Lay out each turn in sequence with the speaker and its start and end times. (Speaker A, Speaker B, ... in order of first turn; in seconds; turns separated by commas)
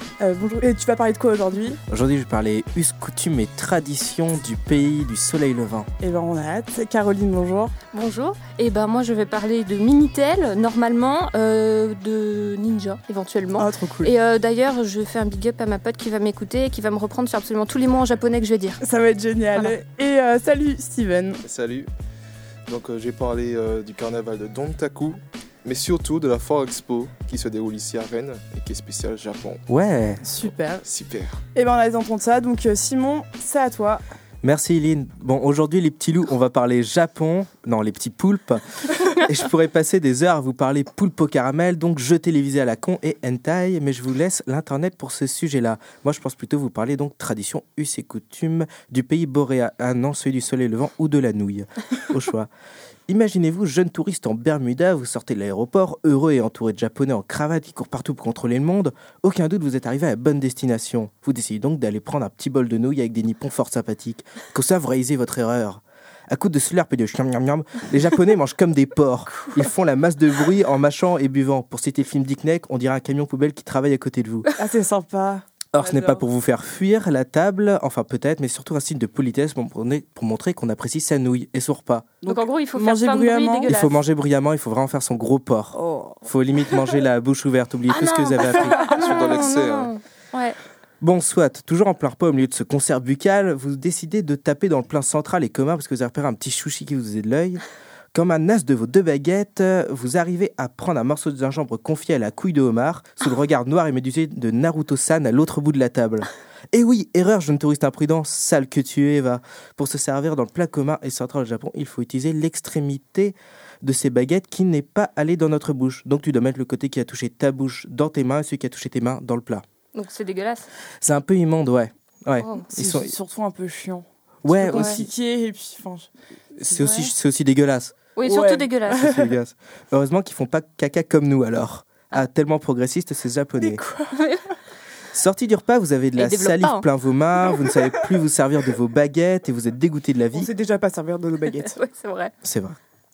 Speaker A: 0.2-1.8, Speaker B: 1.9-5.9, Speaker A: 6.0-7.7, Speaker C: 7.9-18.8, Speaker A: 13.6-14.1, Speaker A: 18.8-21.4, Speaker D: 21.4-21.9, Speaker D: 22.7-29.6, Speaker B: 29.7-30.2, Speaker A: 30.2-30.8, Speaker D: 30.8-31.4, Speaker A: 31.5-34.0, Speaker B: 34.4-52.5, Speaker B: 53.1-74.5, Speaker A: 74.5-76.2, Speaker B: 75.7-82.1, Speaker A: 82.2-83.7, Speaker C: 82.3-84.0, Speaker B: 83.7-88.9, Speaker A: 85.7-86.2, Speaker C: 87.9-90.5, Speaker A: 88.8-89.2, Speaker D: 89.0-89.9, Speaker B: 91.0-97.6, Speaker B: 98.1-119.6, Speaker C: 119.9-120.7, Speaker B: 121.0-123.1, Speaker C: 122.4-122.7, Speaker A: 122.7-126.1, Speaker B: 124.4-125.1, Speaker C: 124.7-125.0, Speaker B: 126.6-127.9, Speaker A: 126.7-127.1, Speaker C: 128.2-129.1, Speaker A: 128.2-129.3, Speaker B: 128.9-133.8, Speaker A: 133.6-134.2, Speaker C: 134.1-134.4, Speaker B: 135.1-140.5, Speaker C: 136.2-136.8, Speaker A: 140.3-141.8, Speaker C: 141.6-142.3, Speaker B: 142.4-142.8